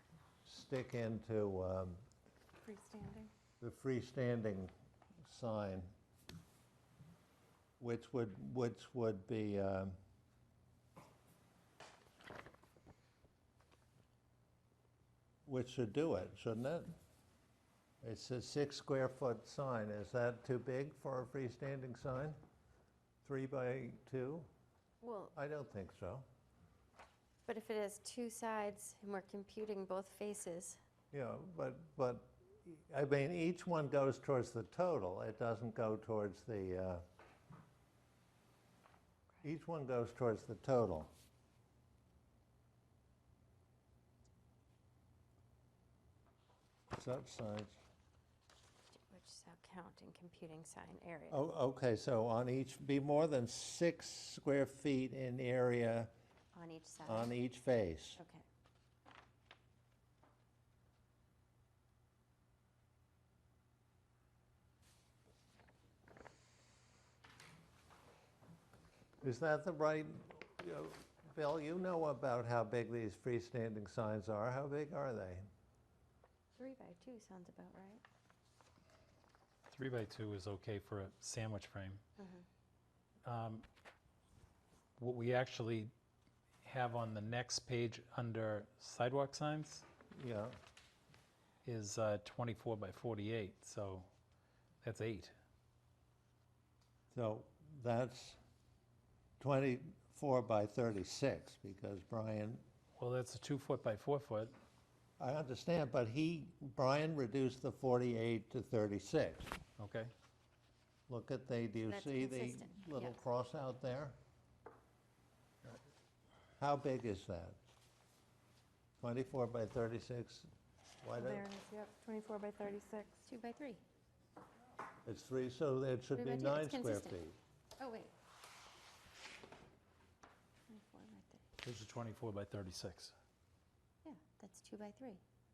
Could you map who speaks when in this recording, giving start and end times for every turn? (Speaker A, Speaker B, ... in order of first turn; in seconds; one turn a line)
Speaker A: 0.4-2.0
Speaker B: 2.6-3.3
Speaker A: 3.6-4.7
Speaker A: 5.2-5.9
Speaker A: 7.8-9.9
Speaker A: 15.4-16.9
Speaker A: 18.0-22.4
Speaker A: 23.2-24.5
Speaker C: 25.0-25.3
Speaker A: 25.3-26.2
Speaker C: 27.4-30.8
Speaker A: 31.1-37.0
Speaker A: 39.4-41.1
Speaker A: 46.9-47.8
Speaker C: 48.9-51.4
Speaker A: 51.3-56.1
Speaker C: 56.5-57.3
Speaker A: 57.0-58.2
Speaker C: 58.2-58.4
Speaker A: 69.2-75.5
Speaker C: 76.6-78.0
Speaker D: 79.7-82.0
Speaker C: 82.2-82.4
Speaker D: 83.2-83.6
Speaker D: 85.0-85.9
Speaker D: 86.6-89.8
Speaker A: 90.1-90.5
Speaker D: 91.6-94.1
Speaker D: 94.8-95.3
Speaker A: 97.1-98.4
Speaker A: 99.4-102.6
Speaker D: 103.0-104.5
Speaker A: 105.2-109.6
Speaker D: 109.8-110.1
Speaker A: 111.1-114.2
Speaker C: 111.9-113.2
Speaker A: 116.6-117.6
Speaker A: 119.0-120.5
Speaker A: 121.0-121.5
Speaker B: 121.2-123.2
Speaker C: 123.2-123.8
Speaker A: 125.0-127.4
Speaker C: 126.1-127.2
Speaker C: 127.8-128.1
Speaker C: 130.7-131.4
Speaker D: 131.6-133.1
Speaker C: 134.0-135.2